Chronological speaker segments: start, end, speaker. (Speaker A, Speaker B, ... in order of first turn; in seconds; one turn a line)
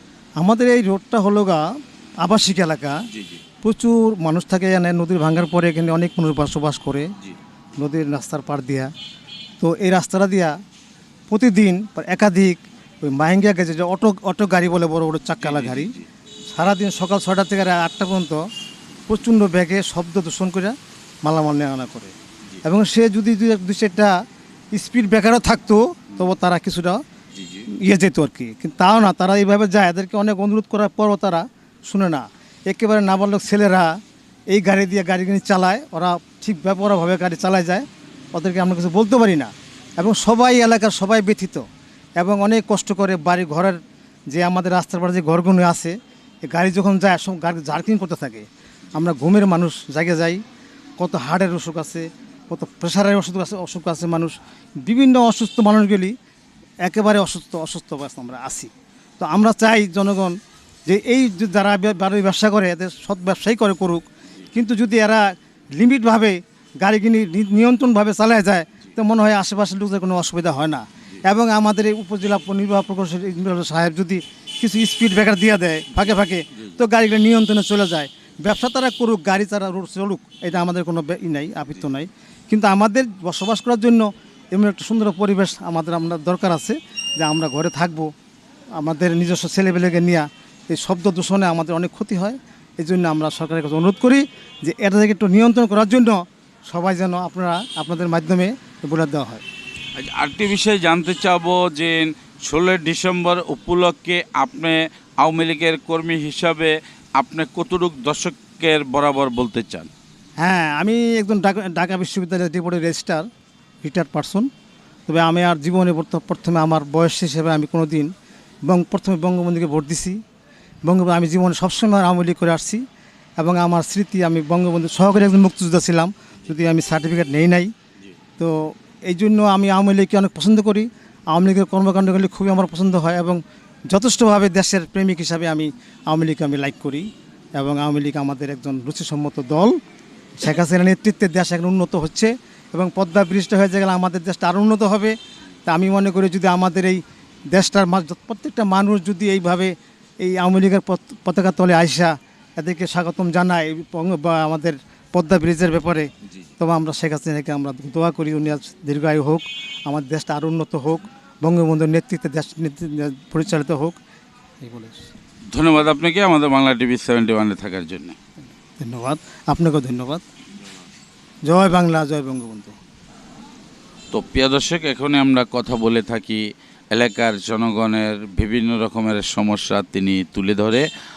Speaker A: 0.4-1.6
Speaker A: 2.2-3.0
Speaker A: 3.6-7.1
Speaker A: 7.8-8.9
Speaker A: 9.6-10.5
Speaker A: 11.3-15.9
Speaker B: 15.6-15.9
Speaker A: 16.5-18.4
Speaker A: 19.1-24.1
Speaker A: 24.7-27.0
Speaker A: 27.8-33.9
Speaker A: 34.5-41.6
Speaker A: 42.2-43.8
Speaker A: 44.3-50.4
Speaker A: 51.0-56.1
Speaker A: 56.8-88.1
Speaker A: 88.8-99.4
Speaker B: 100.0-109.9
Speaker A: 110.4-113.3
Speaker A: 113.8-114.5
Speaker A: 115.1-118.1
Speaker A: 118.7-120.2
Speaker A: 120.8-122.8
Speaker A: 123.4-127.7
Speaker A: 128.4-139.8
Speaker A: 140.4-145.2
Speaker A: 145.7-164.0
Speaker A: 164.6-165.1
Speaker B: 165.5-168.2
Speaker A: 168.8-170.2
Speaker A: 171.4-172.8
Speaker B: 174.1-180.8